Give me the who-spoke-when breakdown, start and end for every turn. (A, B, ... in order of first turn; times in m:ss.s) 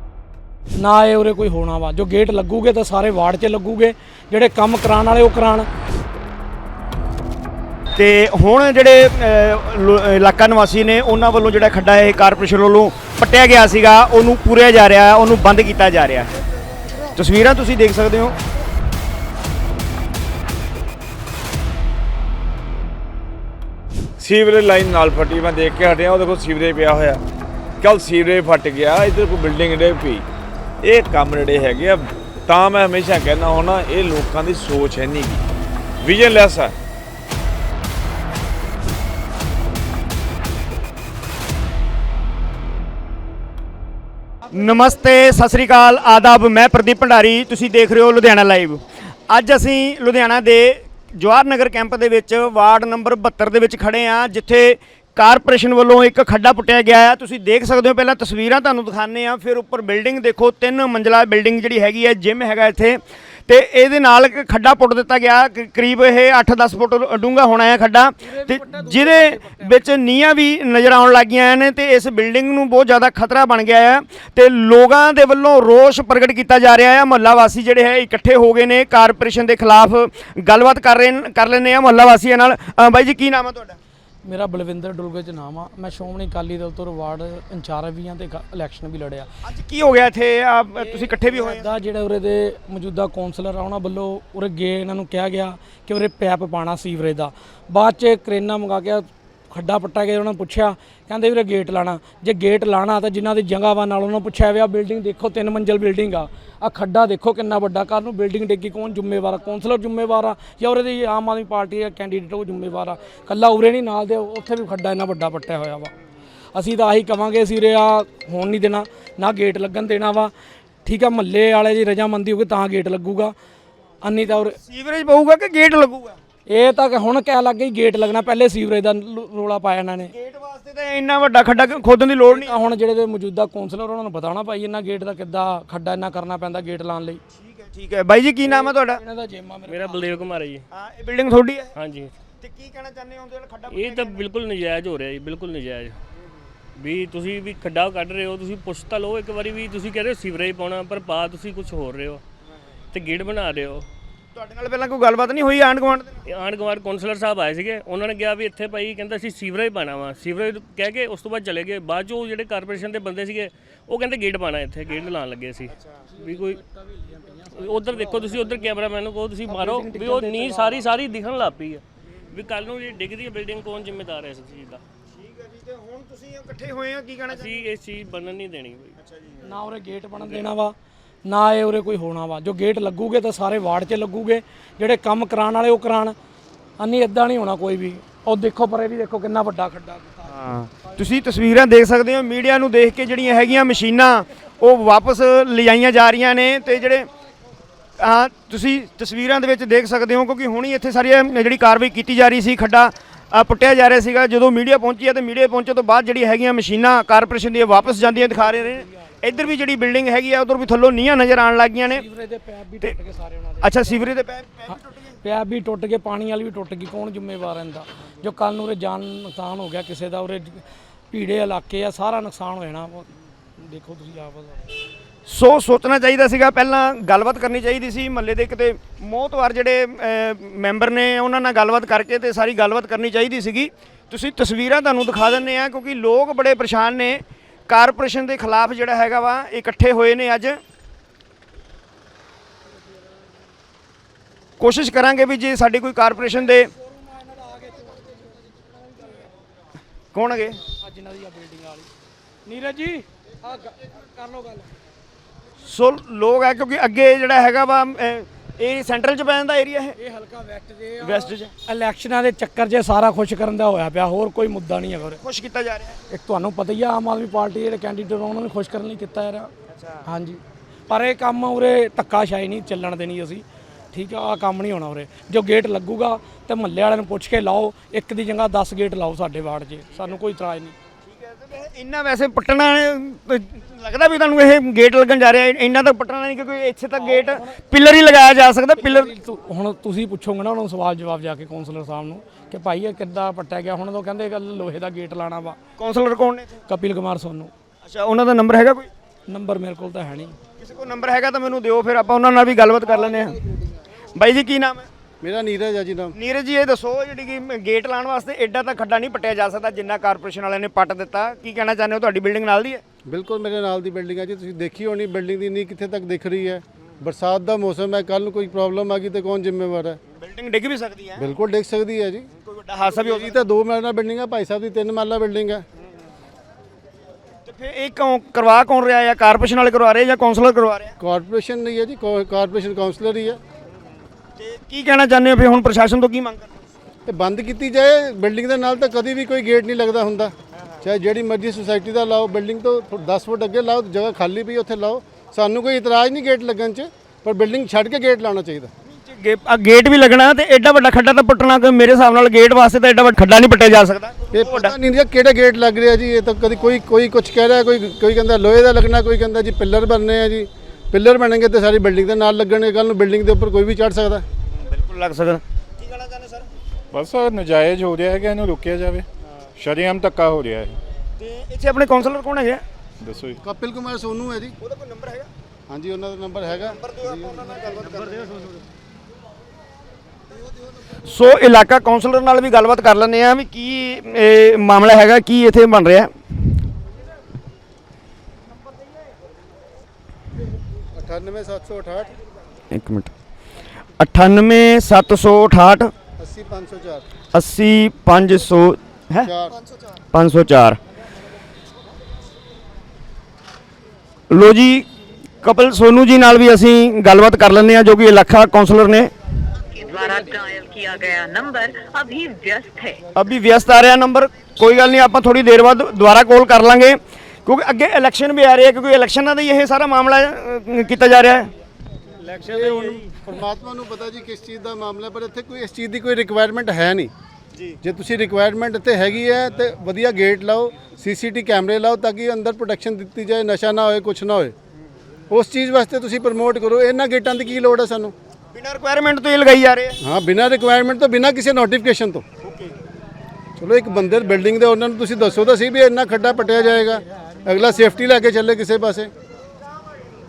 0:00.8-0:05.7 A
0:08.0-0:16.3 B
0:17.0-0:18.4 B
0:24.2-0:27.2 C
0:27.8-0:30.2 C
0:30.8-0:35.4 C
0:36.0-0:36.7 C
0:44.5-1:23.8 B
1:08.2-1:09.8 A
1:24.2-1:29.3 A
1:29.4-1:31.7 B
1:30.8-1:55.9 A
1:56.5-2:00.3 A
2:00.8-2:03.3 A
2:04.0-2:04.6 A
2:04.6-2:06.2 B
2:06.5-2:10.1 A
2:10.1-2:12.5 B
2:12.3-2:17.2 A
2:17.3-2:19.0 B
2:18.4-2:20.3 A
2:19.7-2:20.6 D
2:20.7-2:21.7 B
2:21.8-2:22.1 D
2:22.4-2:24.3 B
2:23.7-2:26.0 D
2:26.8-2:32.2 D
2:32.9-2:33.9 D
2:34.3-2:36.2 B
2:36.2-2:46.6 D
2:46.9-2:48.3 A
2:47.5-2:54.8 D
2:49.5-2:50.8 A
2:55.1-2:57.6 B
2:57.3-2:59.0 D
2:59.0-2:59.4 B
2:59.4-3:06.1 A
3:00.2-3:00.4 D
3:06.8-3:10.3 A
3:10.2-3:17.1 B
3:18.0-3:32.0 B
3:28.0-3:29.3 A
3:31.9-3:34.1 A
3:33.6-3:35.1 B
3:34.7-3:44.6 A
3:45.3-4:00.6 B
4:04.6-4:06.7 B
4:07.5-4:07.9 A
4:10.1-4:10.6 B
4:10.8-4:11.9 A
4:12.4-4:14.7 A
4:15.6-4:19.9 B
4:20.0-4:25.2 A
4:21.0-4:21.5 B
4:25.1-4:26.0 B
4:26.1-4:29.5 A
4:29.7-4:30.0 B
4:30.0-4:40.7 A
4:41.0-4:49.1 B
4:47.0-4:47.6 A
4:48.8-4:55.6 A
4:55.8-4:56.6 B
4:56.7-4:57.5 A
4:57.8-4:58.9 B
4:59.3-5:00.4 A
5:00.6-5:03.4 B
5:04.1-5:04.9 B
5:05.2-5:06.2 E
5:06.1-5:12.8 B
5:13.1-5:20.0 E
5:20.1-5:21.2 B
5:21.2-5:22.3 E
5:22.4-5:23.4 B
5:22.9-5:25.6 E
5:27.4-5:31.0 B
5:31.0-5:33.4 E
5:34.4-5:36.5 B
5:37.1-5:48.7 E
5:48.8-5:54.7 B
5:54.3-6:04.2 E
6:04.6-6:06.5 B
6:06.9-6:09.0 F
6:09.6-6:10.8 F
6:11.2-6:12.6 B
6:13.0-6:13.4 F
6:13.4-6:14.6 E
6:14.6-6:15.3 B
6:15.7-6:17.4 E
6:16.7-6:18.4 B
6:21.0-6:26.1 B
6:30.9-6:32.1 E
6:32.7-6:33.1 B
6:34.0-6:35.9 B
6:36.2-6:37.0 E
6:37.3-6:39.3 B
6:39.2-6:39.6 E
6:40.1-6:40.8 B
6:44.3-6:44.8 B
6:45.4-6:49.1 B
6:49.7-6:53.0 G
6:53.1-7:01.5 B
7:02.3-7:07.1 E
7:02.6-7:03.0 B
7:07.8-7:14.5 E
7:15.3-7:18.1 E
7:18.5-7:20.0 B
7:20.0-7:22.2 E
7:22.4-7:22.7 B
7:23.6-7:29.1 E